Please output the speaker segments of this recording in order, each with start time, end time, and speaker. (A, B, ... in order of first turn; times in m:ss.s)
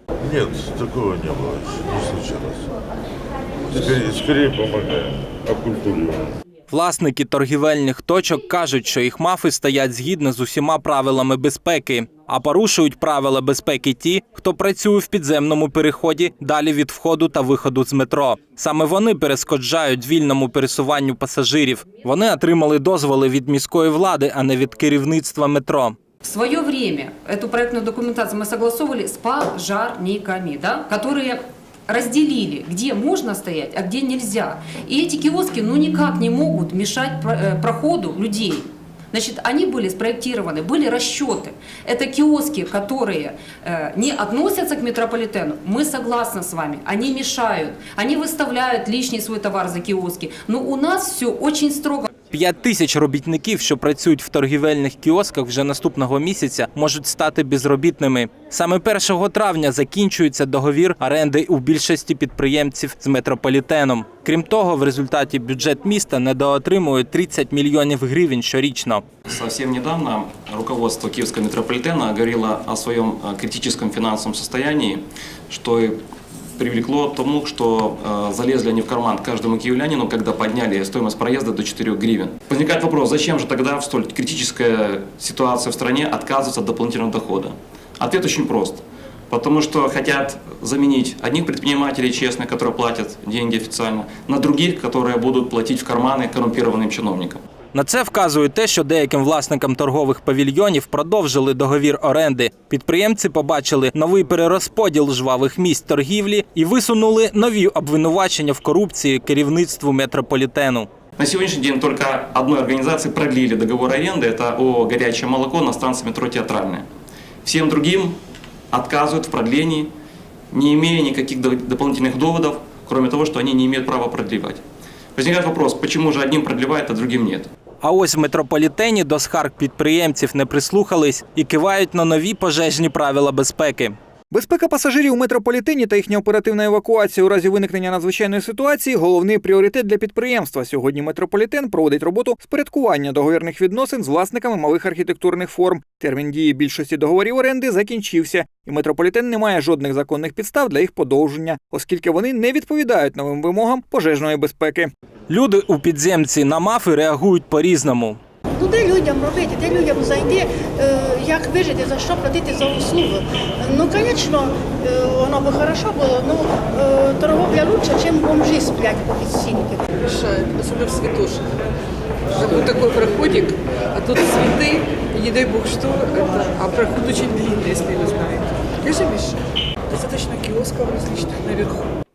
0:00.2-0:02.7 A
0:03.7-0:06.3 A
0:06.7-0:26.0 B
0:26.2-0:52.1 C
0:52.3-1:09.0 B
1:09.3-1:16.0 D
1:16.6-1:37.4 D
1:37.7-1:50.9 B
1:51.2-1:56.8 D
1:57.4-1:58.2 D
1:58.7-1:59.9 D
2:00.5-2:04.6 D
2:05.2-2:07.5 D
2:07.8-2:14.0 B
2:14.3-2:34.9 E
2:35.3-2:38.2 B
2:38.6-2:49.8 F
2:50.1-2:51.5 G
2:52.3-2:59.4 G
2:59.9-3:01.9 G